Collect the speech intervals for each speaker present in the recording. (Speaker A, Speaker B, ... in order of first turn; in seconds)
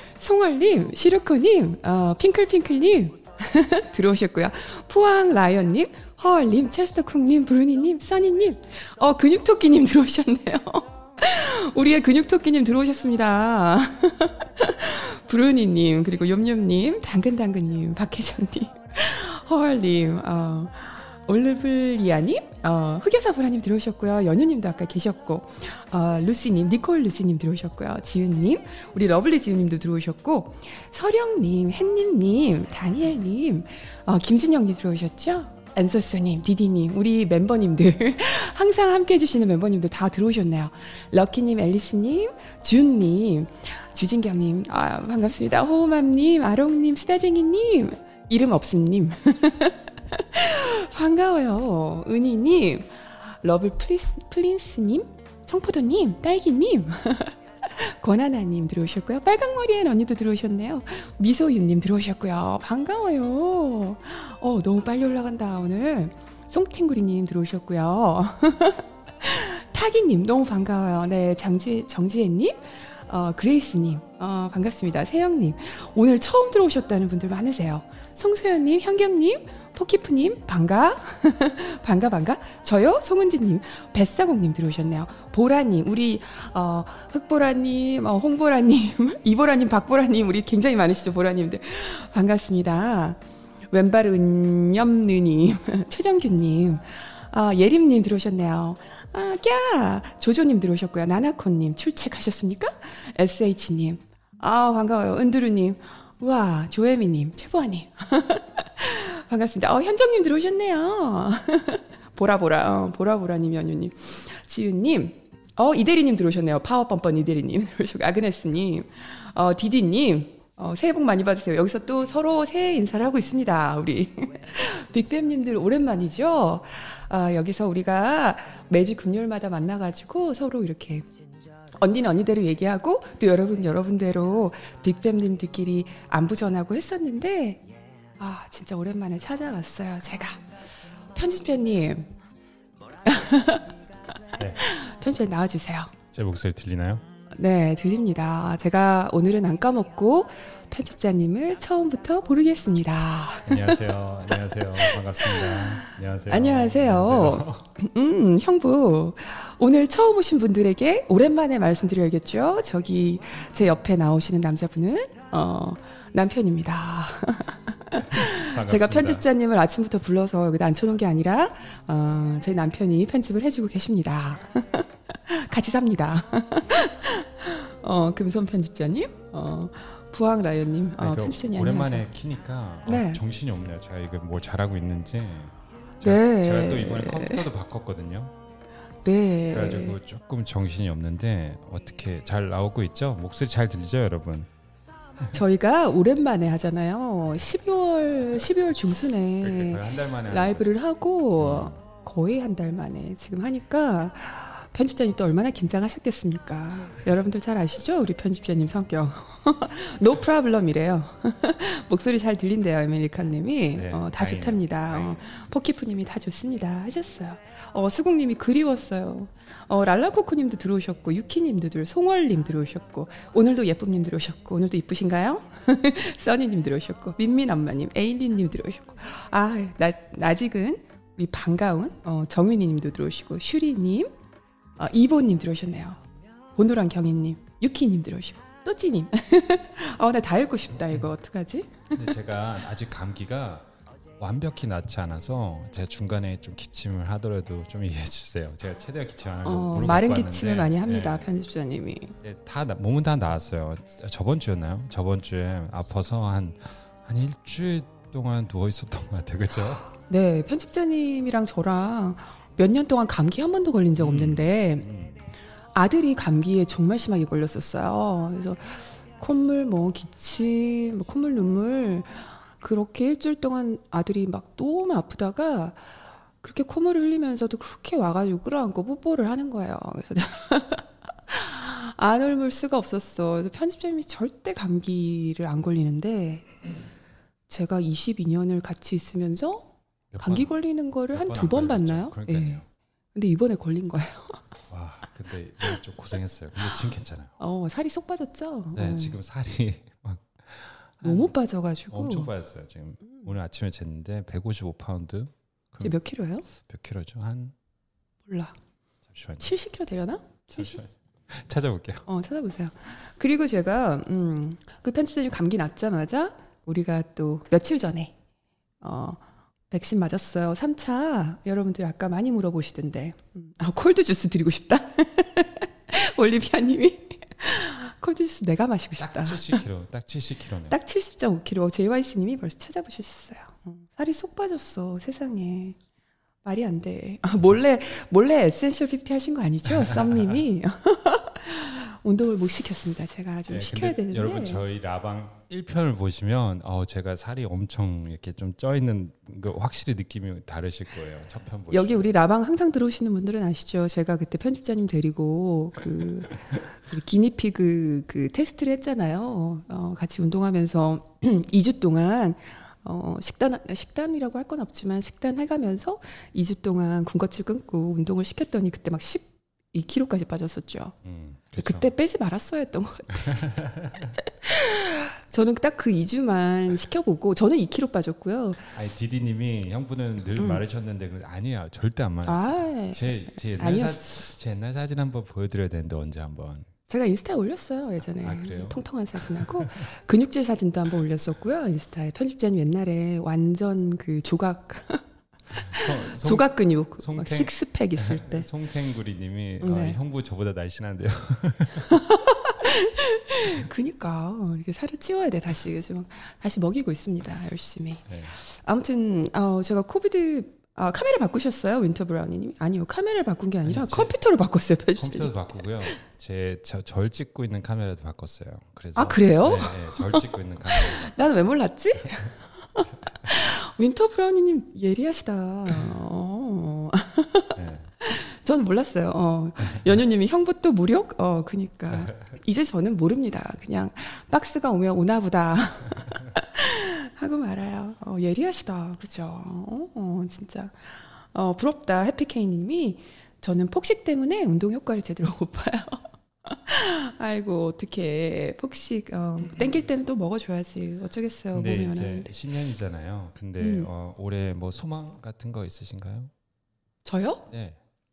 Speaker A: 0.2-131.1, 131.8-137.6, 138.2-140.5, 141.1-142.1, 143.0-145.9, 147.4-182.1, 182.9-183.2, 186.0-187.4, 189.1-190.0, 195.3-234.1, 234.8-236.0, 236.5-242.1, 249.4-252.2, 260.1-264.9, 265.7-286.5, 287.5-292.6, 293.1-294.4, 297.4-299.2, 301.0-302.3, 305.8-306.4, 308.3-308.6, 309.4-310.8, 312.1-318.1, 318.8-329.6, 330.7-335.8, 336.4-344.6, 351.7-371.0, 371.6-373.5, 374.4-378.8, 380.4-380.6, 382.2-384.1, 386.9-395.0, 395.6-398.5, 399.6-400.0, 401.9-415.3, 419.0-452.3, 453.6-453.9, 457.1-457.5
Speaker B: 146.1-147.0, 153.5-157.7, 168.0-169.3, 181.0-188.3, 189.5-194.5, 199.4-200.7, 201.4-201.8, 213.8-215.2, 241.9-251.3, 252.2-259.9, 264.0-265.2, 290.1-290.5, 291.1-292.7, 294.7-297.3, 298.8-301.3, 301.9-305.9, 306.5-307.6, 309.1-309.5, 310.5-312.1, 329.0-330.8, 339.7-340.4, 343.5-352.1, 371.0-371.9, 373.1-374.1, 378.7-386.7, 388.2-389.7, 395.6-402.0, 408.1-408.4, 413.6-414.1, 415.0-421.3, 427.6-427.9, 429.6-429.9, 431.9-432.2, 451.5-456.3, 457.5-457.8